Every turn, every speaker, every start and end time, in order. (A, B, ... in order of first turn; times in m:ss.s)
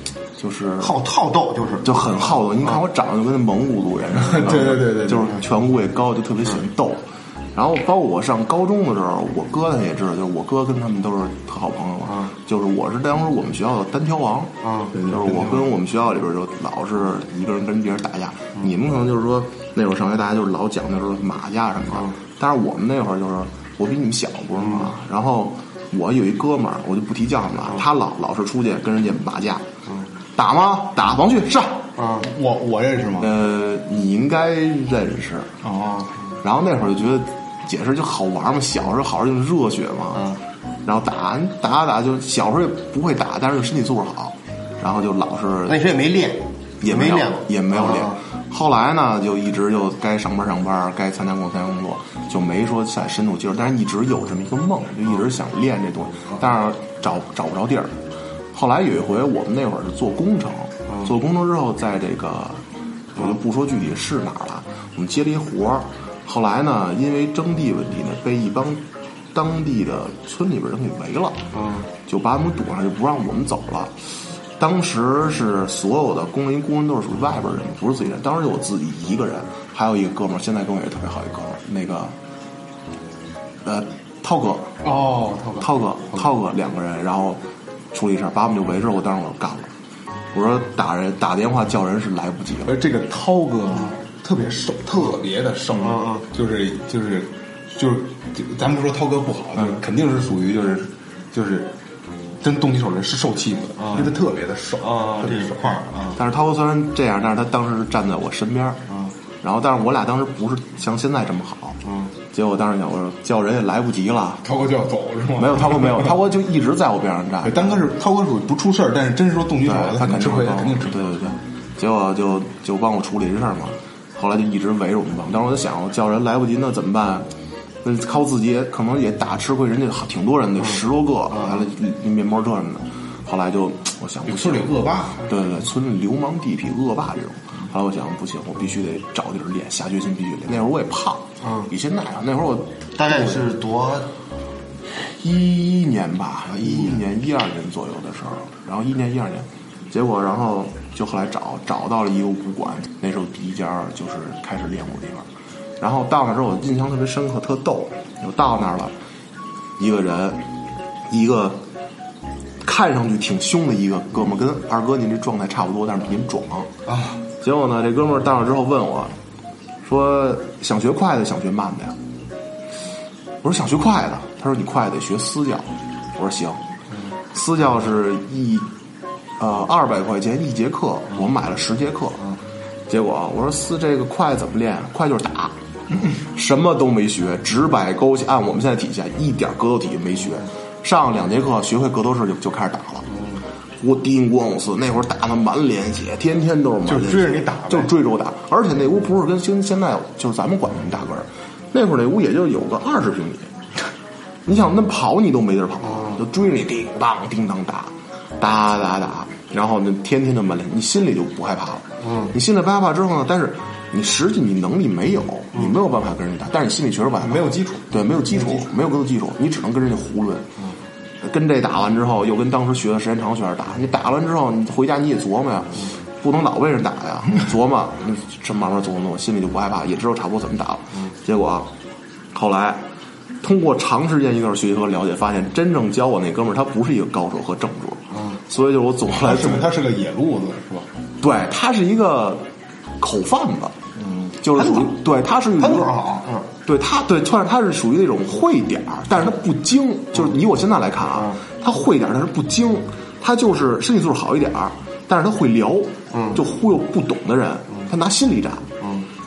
0:00.4-0:00.9 A
0:00.8-0:02.0 B
0:01.8-0:29.6 A
0:04.1-0:05.4 C
0:12.0-0:12.3 B
0:14.6-0:14.9 B
0:14.9-0:15.7 C
0:30.3-0:31.9 A
0:32.0-0:32.3 B
0:32.2-0:33.3 C
0:33.2-0:35.5 A
0:35.6-0:36.1 C
0:36.4-0:40.3 A
0:40.1-0:40.4 B
0:40.8-0:45.8 A
0:45.7-0:48.2 B
0:46.8-0:57.9 A
0:58.5-1:02.6 A
1:03.1-1:08.8 A
1:09.3-1:11.5 A
1:11.5-1:11.9 B
1:12.1-1:13.9 A
1:14.6-1:22.1 A
1:23.6-1:24.9 A
1:24.8-1:26.2 C
1:25.6-1:27.4 A
1:27.9-1:29.7 A
1:30.3-1:32.8 A
1:32.6-1:41.7 C
1:35.8-1:36.2 B
1:42.4-1:46.0 C
1:43.8-1:44.1 B
1:44.8-1:46.2 B
1:46.2-1:48.8 A
1:49.4-1:51.8 A
1:51.8-1:52.1 B
1:52.3-1:54.4 A
1:54.4-1:56.2 C
1:55.4-1:57.7 A
1:57.4-2:01.3 C
1:59.6-2:07.3 A
2:07.8-2:14.7 A
2:11.3-2:11.6 B
2:14.2-2:15.4 C
2:15.3-2:23.2 A
2:21.4-2:21.7 B
2:22.9-2:24.1 B
2:24.9-2:35.3 A
2:26.5-2:27.0 B
2:35.8-2:38.9 A
2:39.8-2:40.4 A
2:41.1-2:41.6 A
2:42.6-2:46.7 A
2:47.4-2:49.1 A
2:49.8-2:52.0 A
2:53.4-2:56.6 A
2:57.3-2:58.7 A
2:59.4-3:02.3 A
3:02.9-3:13.1 A
3:13.8-3:23.5 A
3:16.8-3:17.9 C
3:24.4-3:40.5 A
3:25.8-3:26.2 B
3:32.0-3:32.3 B
3:37.2-3:38.6 C
3:41.2-3:51.7 A
3:52.3-3:52.8 A
3:53.4-3:59.7 A
3:58.1-3:58.4 B
3:59.1-4:00.9 C
4:01.2-4:02.4 A
4:03.0-4:03.8 A
4:04.0-4:04.4 C
4:04.4-4:05.9 A
4:04.5-4:05.0 B
4:05.6-4:06.5 B
4:06.6-4:18.7 A
4:16.1-4:16.4 B
4:18.8-4:19.1 B